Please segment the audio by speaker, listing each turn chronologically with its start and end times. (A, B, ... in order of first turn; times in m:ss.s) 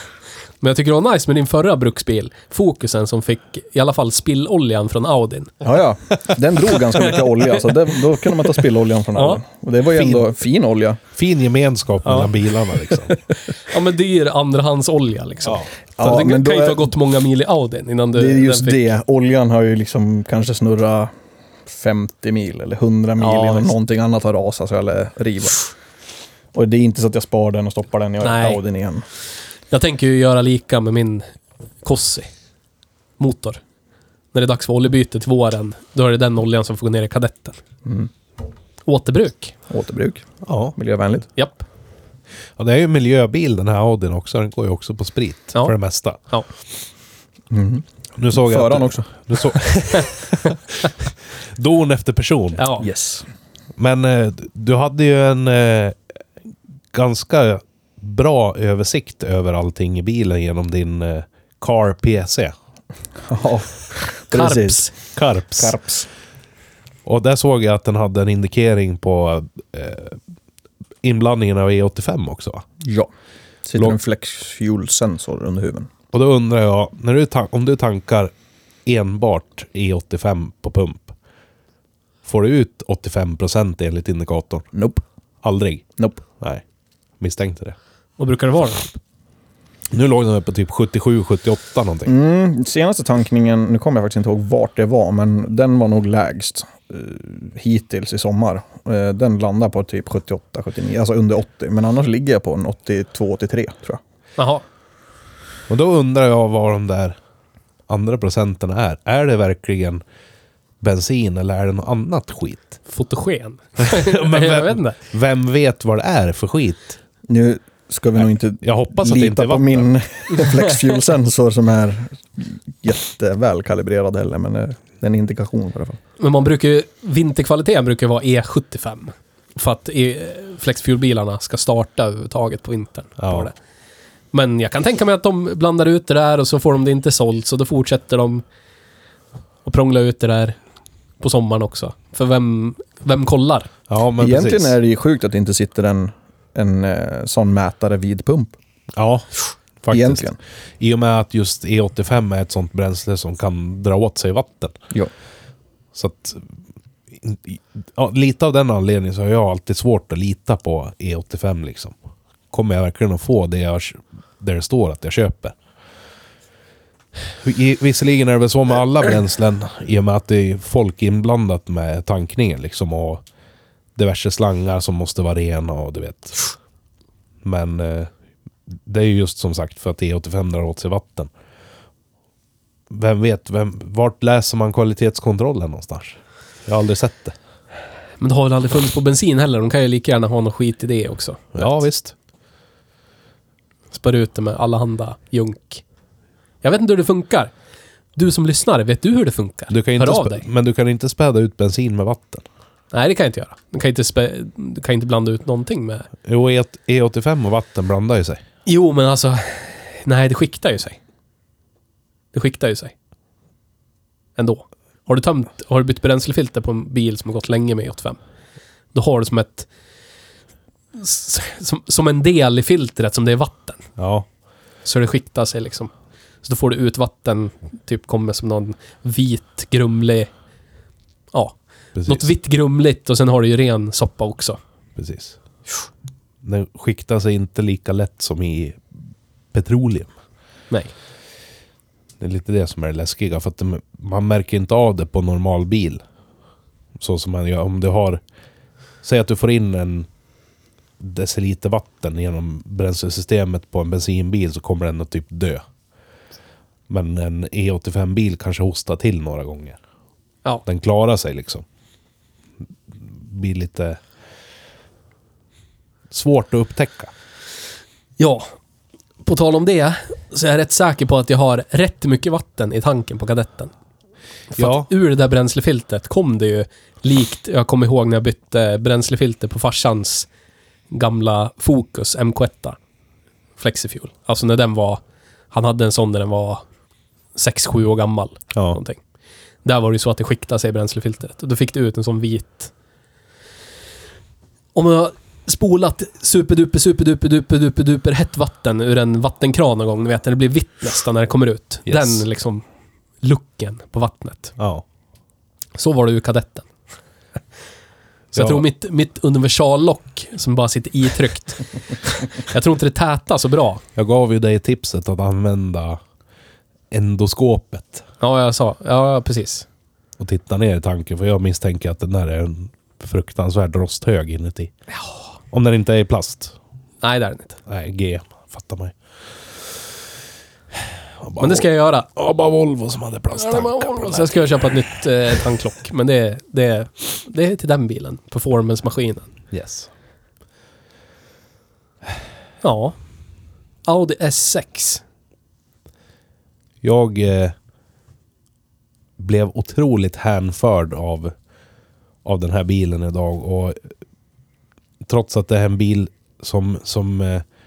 0:00.6-0:05.5 A
0:05.6-0:11.0 B
0:09.9-0:10.3 C
0:11.2-0:13.2 C
0:12.0-0:12.3 A
0:13.6-0:18.8 A
0:16.0-0:16.9 B
0:18.2-0:21.1 B
0:21.7-0:25.7 B
0:23.2-0:23.7 A
0:26.5-0:29.0 B
0:28.2-0:28.6 A
0:29.7-0:31.2 A
0:31.8-0:32.3 A
0:33.2-0:33.6 A
0:34.3-0:37.6 A
0:38.9-0:39.6 A
0:39.7-0:41.3 B
0:40.4-0:40.8 C
0:41.4-0:41.6 A
0:42.6-0:46.2 C
0:47.5-0:49.6 B
0:48.2-0:52.6 C
0:52.6-0:52.9 A
0:52.8-0:53.3 B
0:53.8-0:56.0 C
0:56.9-1:02.5 C
1:03.2-1:04.9 B
1:04.3-1:04.9 A
1:05.2-1:05.8 C
1:05.6-1:06.1 B
1:07.0-1:10.2 C
1:11.0-1:12.6 C
1:12.8-1:13.1 B
1:13.6-1:15.9 B
1:16.1-1:18.3 C
1:18.9-1:21.1 C
1:22.2-1:24.7 C
1:24.7-1:25.0 B
1:25.4-1:25.8 C
1:26.0-1:26.2 B
1:27.2-1:27.8 C
1:28.2-1:29.0 A
1:29.9-1:32.1 C
1:32.1-1:44.0 B
1:44.4-1:44.6 A
1:45.7-1:47.2 C
1:47.9-1:50.0 C
1:50.8-1:52.8 C
1:52.9-1:55.0 A
1:53.8-1:57.0 C
1:57.3-2:06.0 B
1:58.2-1:59.9 C
2:06.2-2:13.5 A
2:13.2-2:13.5 C
2:14.3-2:18.4 A
2:19.6-2:20.6 A
2:21.2-2:23.7 A
2:23.9-2:24.8 C
2:24.2-2:28.6 B
2:29.0-2:30.3 C
2:29.9-2:30.4 B
2:30.8-2:34.8 C
2:36.0-2:36.5 C
2:37.1-2:42.0 C
2:42.5-2:45.6 C
2:47.4-2:53.2 C
2:54.0-2:56.5 C
2:57.4-2:58.1 C
2:58.9-3:01.3 C
3:02.9-3:07.4 C
3:08.2-3:11.7 A
3:11.5-3:12.2 C
3:13.9-3:15.8 A
3:16.6-3:17.5 A
3:18.2-3:20.5 A
3:19.7-3:22.4 C
3:22.9-3:26.1 A
3:26.2-3:28.4 C
3:28.7-3:31.0 A
3:32.3-3:32.9 A
3:34.4-3:38.2 A
3:38.9-3:39.7 A
3:41.0-3:43.8 A
3:44.0-3:44.3 C
3:44.8-3:45.9 A
3:46.4-3:50.3 A
3:51.3-3:54.6 A
3:52.0-3:52.3 C
3:55.0-3:55.4 C
3:56.4-3:58.8 C
3:59.5-4:00.1 C
4:02.2-4:06.0 C
4:07.0-4:08.2 C
4:09.0-4:10.1 C
4:11.0-4:15.6 C
4:16.9-4:19.8 C
4:20.7-4:21.6 C
4:22.9-4:24.0 C
4:26.1-4:27.1 C
4:28.2-4:28.5 A
4:29.2-4:33.7 A
4:34.5-4:40.3 A
4:34.6-4:34.9 C
4:40.9-4:42.8 A
4:43.6-4:46.6 A
4:47.4-4:49.0 A
4:48.5-4:48.8 C
4:49.6-4:52.7 A
4:54.8-5:02.6 A
5:01.9-5:02.2 C
5:03.2-5:04.6 A
5:04.6-5:04.8 C
5:05.8-5:06.7 A
5:08.3-5:13.8 A
5:08.3-5:08.7 C
5:14.0-5:16.0 C
5:16.9-5:18.0 C
5:18.2-5:19.7 A
5:20.2-5:24.7 C
5:25.5-5:26.6 C
5:27.0-5:27.6 A
5:27.7-5:29.0 C
5:31.2-5:34.7 C
5:31.4-5:32.1 A
5:33.3-5:39.3 A
5:39.5-5:39.9 C
5:42.6-5:43.0 A
5:43.9-5:45.0 A
5:46.8-5:47.6 C
5:49.2-5:51.3 C
5:52.2-5:53.8 C
5:55.0-5:57.4 C